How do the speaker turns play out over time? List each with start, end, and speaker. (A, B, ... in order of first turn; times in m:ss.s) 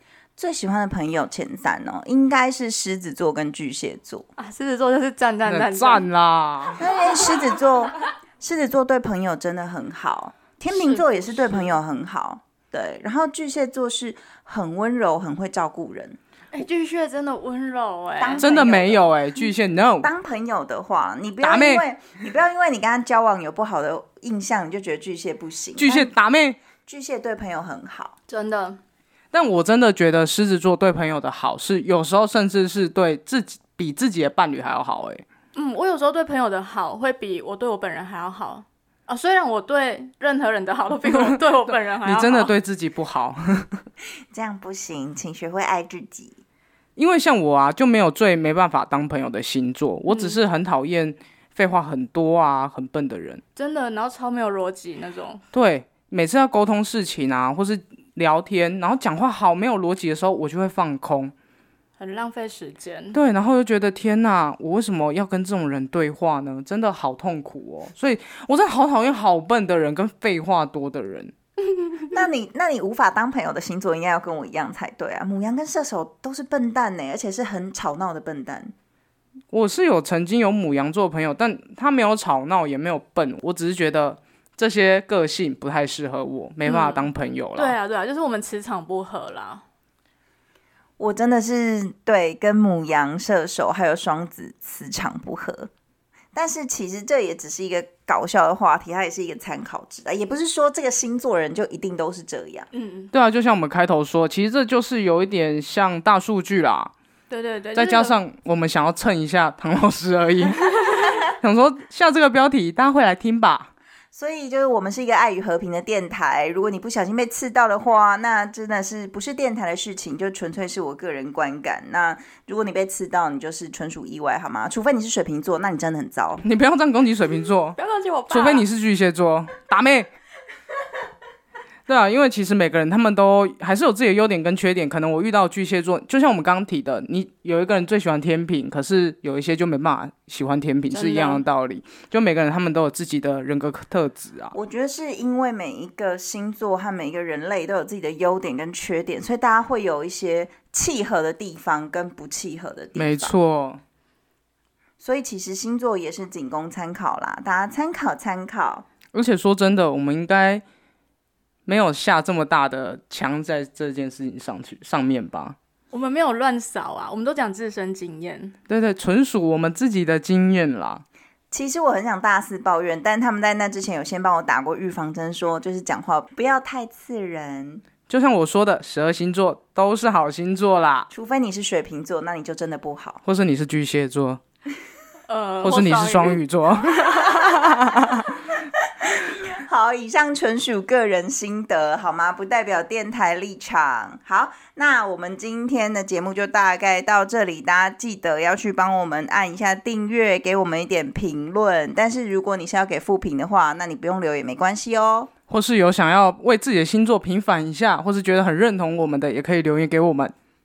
0:00.4-0:04.3 A
0:04.4-0:06.1 B
0:05.4-0:06.9 C
0:06.8-0:16.2 A
0:10.7-0:11.8 B
0:16.5-0:18.5 B
0:18.2-0:19.4 A
0:18.4-0:20.1 C
0:20.0-0:26.1 A
0:21.4-0:21.8 C
0:25.8-0:26.6 C
0:26.8-0:28.1 A
0:28.3-0:28.8 B
0:29.3-0:35.2 C
0:35.5-0:42.5 B
0:41.1-0:41.4 C
0:42.0-0:43.8 C
0:44.3-0:46.4 A
0:47.0-0:53.4 C
0:50.1-0:50.4 B
0:53.6-0:55.4 B
0:55.5-1:01.3 C
1:02.0-1:03.2 B
1:03.1-1:11.3 C
1:12.1-1:18.7 A
1:19.5-1:27.7 C
1:26.6-1:29.6 B
1:31.0-1:35.7 A
1:36.3-1:42.7 A
1:42.7-1:43.1 B
1:43.1-1:46.9 C
1:47.3-1:48.2 B
1:47.7-1:53.7 C
1:54.1-2:06.4 A
2:06.4-2:07.8 C
2:07.8-2:08.7 B
2:08.3-2:10.1 C
2:11.8-2:24.5 C
2:20.9-2:21.4 B
2:24.5-2:33.3 A
2:33.0-2:33.8 C
2:35.0-2:38.8 A
2:39.1-2:40.6 C
2:41.6-2:45.6 C
2:45.9-2:48.5 B
2:48.7-2:51.0 C
2:51.5-2:57.8 A
2:58.1-3:01.1 C
3:01.1-3:03.2 A
3:03.2-3:04.4 C
3:05.3-3:07.6 B
3:05.6-3:08.3 C
3:09.0-3:25.3 A
3:25.5-3:30.3 C